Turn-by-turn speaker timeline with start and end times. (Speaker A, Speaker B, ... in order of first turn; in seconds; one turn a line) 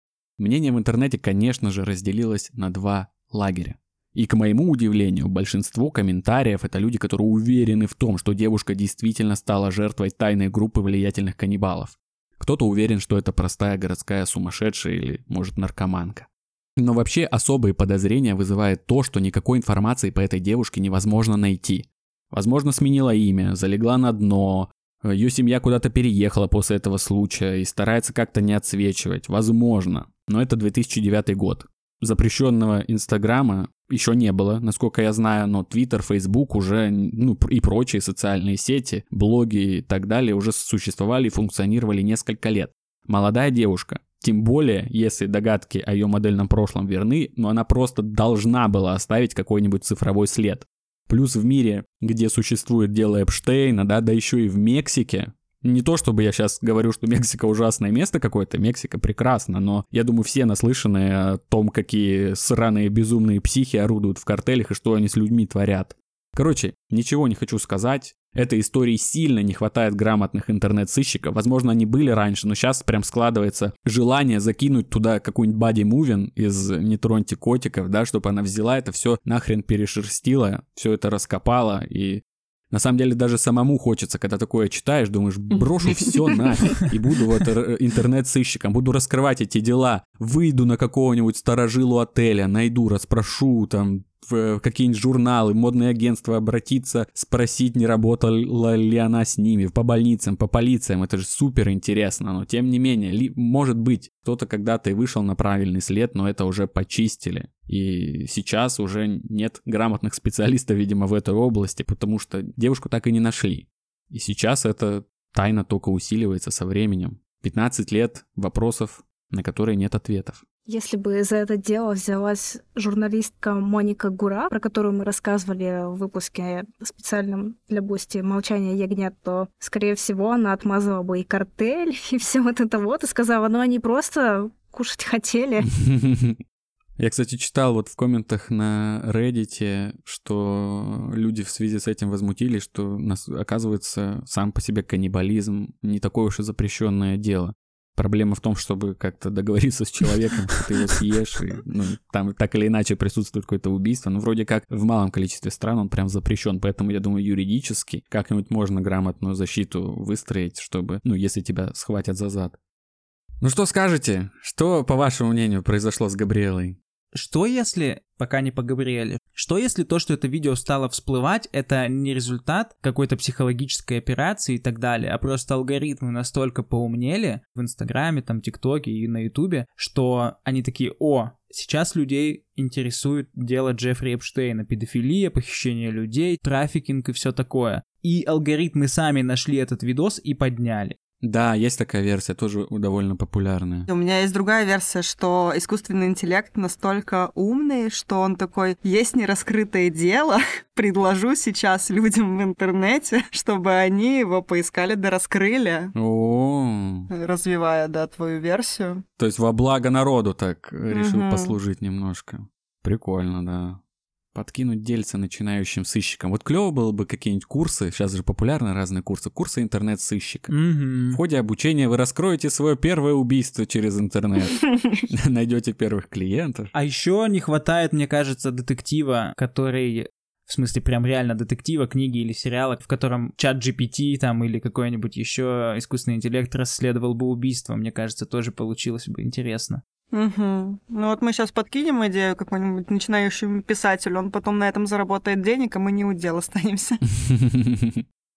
Speaker A: 0.4-120.4
Speaker B: 120.7-135.7
Speaker A: 135.8-136.4
Speaker A: 137.0-162.6
Speaker A: 163.4-166.8
Speaker C: 167.1-191.0
Speaker A: 191.2-193.9
Speaker D: 193.9-205.9
Speaker A: 205.9-207.1
Speaker D: 207.1-209.0
Speaker A: 209.2-213.8
Speaker D: 210.9-211.6
Speaker A: 214.3-220.5
Speaker C: 220.5-221.2
Speaker A: 221.1-226.7
Speaker C: 226.7-239.8
Speaker D: 240.1-247.0
Speaker A: 247.3-248.0